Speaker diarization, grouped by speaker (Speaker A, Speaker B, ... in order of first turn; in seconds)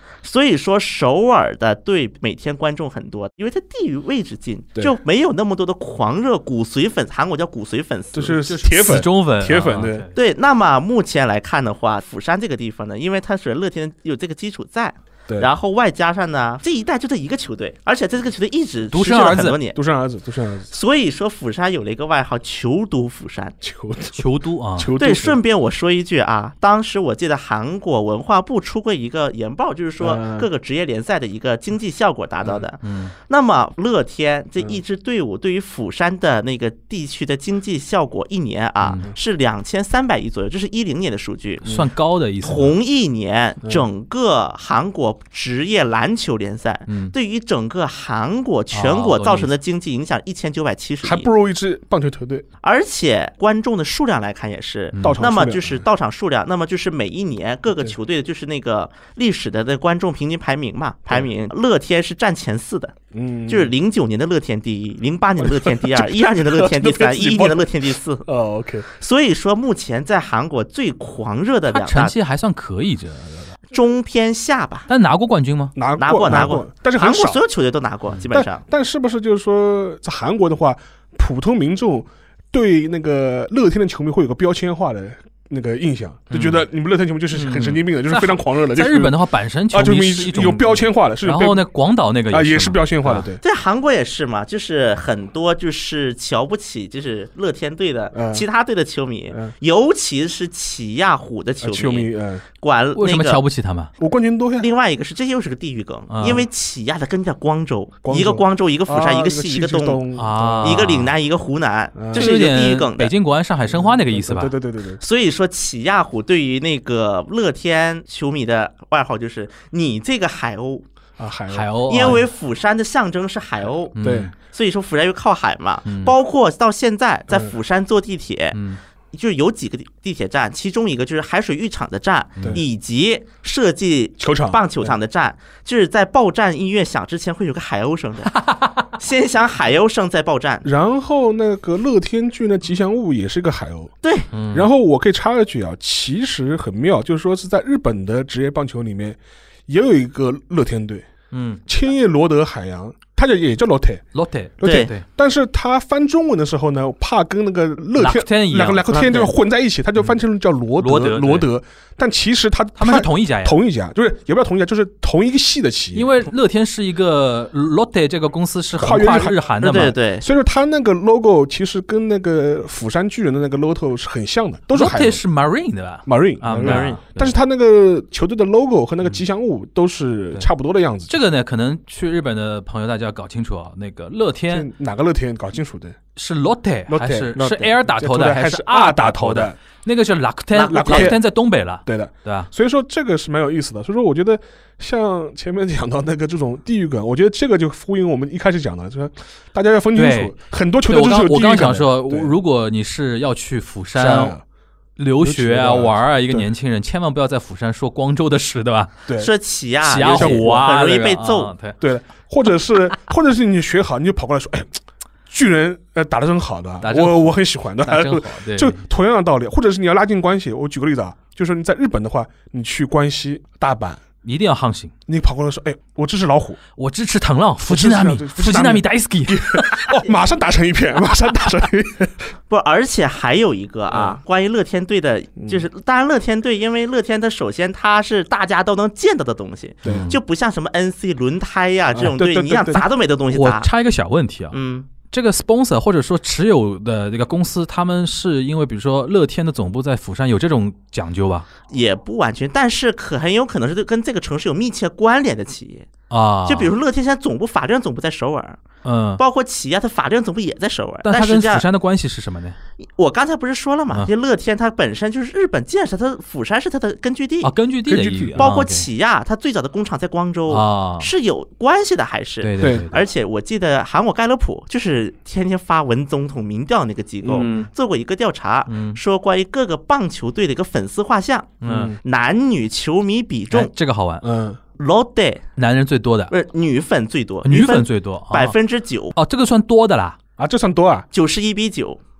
Speaker A: 0.2-8.4, 10.1-19.8, 20.7-23.6, 25.0-41.8, 42.4-51.3, 52.6-62.9, 63.5-68.2, 68.9-72.1, 73.7-74.9, 76.0-78.6, 93.4-103.4, 104.6-110.0, 110.6-113.1, 115.0-120.8, 121.9-123.9, 124.5-128.6, 129.1-138.4, 139.0-140.7, 144.0-144.3, 154.6-154.9, 169.6-170.2, 176.6-177.0, 190.6-191.1, 209.2-211.5, 232.5-243.7, 244.5-244.9, 251.7-255.9, 256.4-258.6, 259.2-261.6, 262.8-267.5, 268.4-283.7, 284.8-285.4, 286.3-289.1, 291.1-292.0
Speaker B: 8.1-10.1, 19.7-20.7, 23.6-24.2, 24.8-25.4, 30.0-30.5, 51.0-52.4, 55.0-55.8, 63.1-63.7, 65.4-68.9, 75.8-77.4, 78.3-89.2, 89.7-91.6, 92.3-93.4, 98.1-98.4, 101.6-102.4, 104.0-104.7, 108.0-110.9, 112.0-112.3, 113.7-115.0, 121.2-122.2, 124.0-124.3, 127.3-127.5, 134.2-134.9, 140.6-143.9, 144.5-151.1, 151.7-154.0, 154.6-166.1, 168.8-175.2, 176.1-181.1, 184.5-186.0, 186.9-189.6, 190.5-191.2, 191.8-202.3, 203.9-204.4, 205.2-206.5, 210.0-210.5, 211.8-214.7, 215.3-224.0, 225.1-226.6, 227.7-232.3, 233.9-234.2, 241.9-242.8, 267.9-268.4, 272.6-272.9, 281.6-282.0, 284.2-284.6, 290.4-291.1
Speaker C: 8.4-10.1, 18.9-19.6, 24.1-24.9, 32.8-33.1, 38.8-39.1, 41.6-42.8, 46.9-47.1, 48.7-49.5, 54.9-55.2, 71.7-73.6, 74.9-75.7, 86.3-86.6, 87.3-93.3, 103.0-103.9, 106.1-106.5, 110.1-111.1, 112.1-114.5, 121.5-122.3, 123.9-124.3, 125.8-126.1, 128.5-128.8, 132.4-132.6, 138.3-138.8, 144.3-144.7, 151.3-151.6, 154.1-155.0, 158.0-159.3, 160.8-161.5, 162.8-163.6, 165.9-170.0, 174.7-177.3, 181.1-184.7, 186.2-192.5, 199.9-200.3, 200.9-204.3, 205.0-208.9, 209.8-211.8, 216.8-218.8, 224.2-224.9, 226.8-229.9, 239.8-240.2, 243.3-244.5, 245.1-251.5, 256.1-256.7, 258.8-259.2, 261.0-262.6, 267.4-268.9, 270.5-271.1, 272.4-273.0, 277.2-277.7, 278.7-279.0, 281.6-281.9, 283.5-284.2, 285.6-286.3, 287.4-288.5, 289.1-290.2